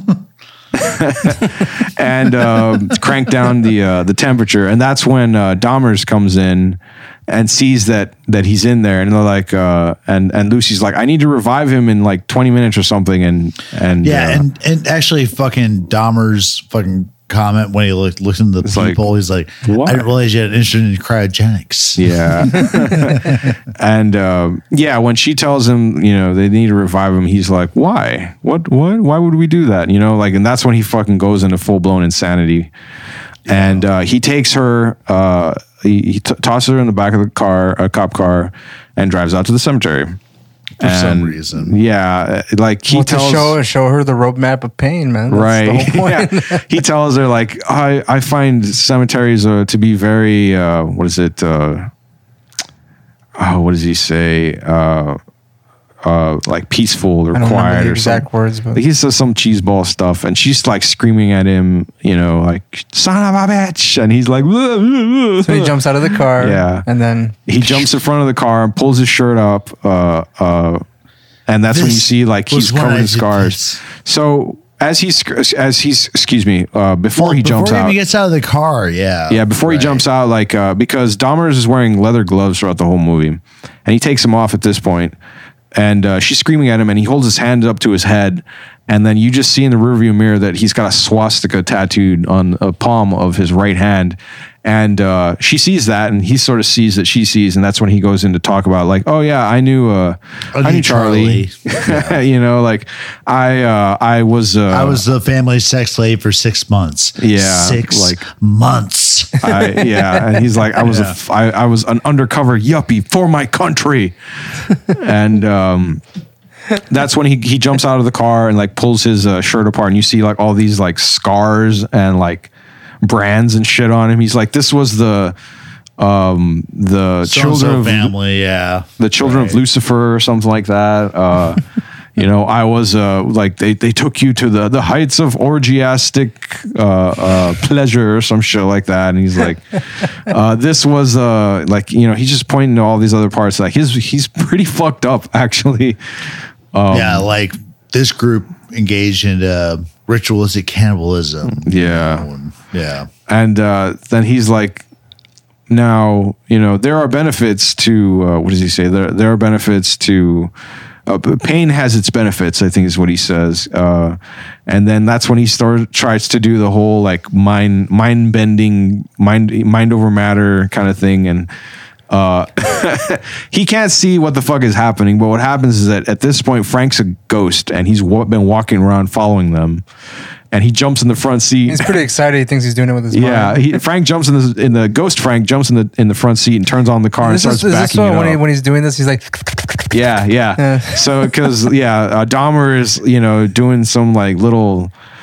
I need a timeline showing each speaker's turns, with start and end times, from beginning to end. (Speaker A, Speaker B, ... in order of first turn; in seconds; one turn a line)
Speaker A: 0.7-14.4
Speaker B: 14.0-23.4
Speaker A: 18.6-19.0
Speaker A: 19.6-20.1
Speaker A: 21.9-32.7
Speaker B: 33.5-33.9
Speaker A: 33.5-40.2
Speaker B: 40.8-41.7
Speaker A: 40.8-43.5
Speaker C: 42.9-46.6
Speaker A: 45.3-51.9
Speaker A: 53.4-55.2
Speaker A: 56.0-65.7
Speaker C: 57.3-58.8
Speaker C: 65.5-67.9
Speaker A: 66.3-66.9
Speaker A: 67.5-70.8
Speaker A: 71.5-78.0
Speaker B: 71.7-73.8
Speaker B: 77.2-80.0
Speaker A: 79.3-85.1
Speaker A: 85.7-105.0
Speaker B: 100.5-102.2
Speaker B: 104.7-109.4
Speaker A: 107.2-108.2
Speaker A: 109.4-114.1
Speaker B: 110.8-111.2
Speaker A: 114.9-116.0
Speaker A: 116.8-122.5
Speaker A: 123.0-125.3
Speaker A: 126.0-128.1
Speaker B: 127.2-129.6
Speaker A: 129.0-131.6
Speaker A: 132.2-146.0
Speaker A: 146.7-147.3
Speaker B: 146.9-153.1
Speaker A: 151.5-152.2
Speaker A: 153.3-154.9
Speaker A: 155.7-160.5
Speaker A: 161.1-171.5
Speaker A: 172.1-179.8
Speaker A: 180.5-182.0
Speaker C: 181.7-183.8
Speaker A: 183.1-188.4
Speaker C: 187.2-190.0
Speaker A: 189.9-194.9
Speaker C: 190.6-191.2